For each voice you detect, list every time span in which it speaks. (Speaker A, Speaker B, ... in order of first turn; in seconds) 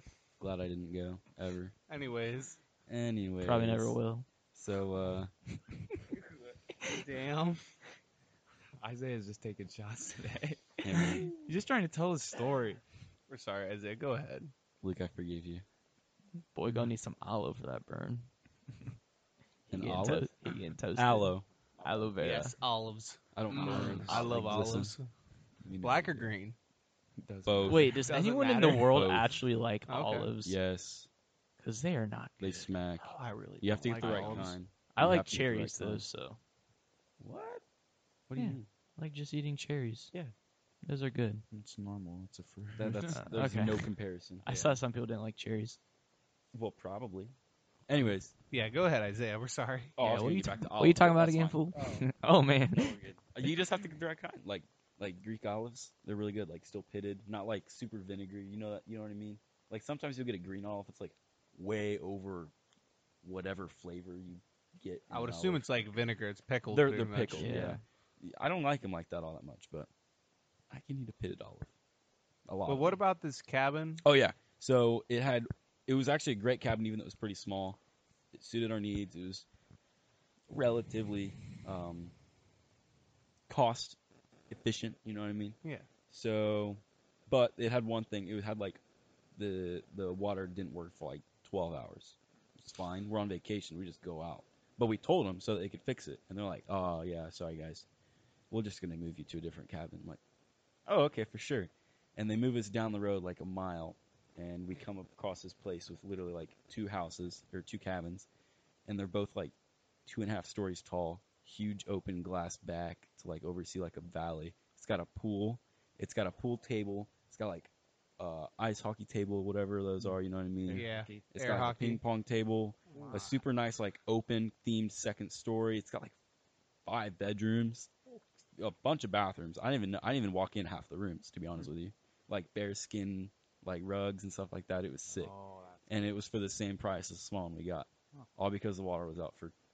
Speaker A: 0.4-1.8, 2.9-4.0, 4.5-5.3, 10.8-11.3, 14.8-15.6, 19.7-20.3, 21.0-21.5, 23.3-24.9, 25.7-26.3, 27.4-27.9, 28.7-29.4, 30.4-31.1, 32.4-36.0, 37.2-37.6, 38.3-38.7, 42.8-44.4, 46.5-47.3, 47.9-48.3, 50.0-52.0, 52.7-62.5, 63.2-65.6, 66.7-69.9, 70.7-71.7, 72.5-73.0, 74.0-77.8, 78.3-79.5, 80.5-82.1, 83.5-84.0, 84.5-85.6, 86.1-88.8, 89.4-97.9, 98.5-100.2, 100.9-108.3, 108.9-109.5, 110.1-126.2, 126.9-127.9, 128.6-135.3, 135.9-139.5
Speaker B: 1.9-2.6, 6.9-7.6, 13.3-14.5, 22.2-25.1, 25.8-26.6, 28.1-28.8, 29.9-30.3, 33.0-34.6, 48.5-50.0, 51.8-52.0, 65.1-67.7, 72.7-74.0, 120.7-122.0, 122.9-123.4
Speaker C: 3.4-4.3, 16.6-18.3, 19.7-22.5, 27.7-30.6, 31.6-32.7, 34.9-36.4, 38.3-40.1, 40.8-41.5, 43.1-43.8, 44.4-45.8, 50.0-53.0, 67.3-67.8
Speaker D: 8.8-12.8, 23.6-24.7, 27.2-28.1, 34.0-34.6, 41.5-43.2, 44.5-44.8, 120.7-121.6, 123.0-123.3, 135.1-135.8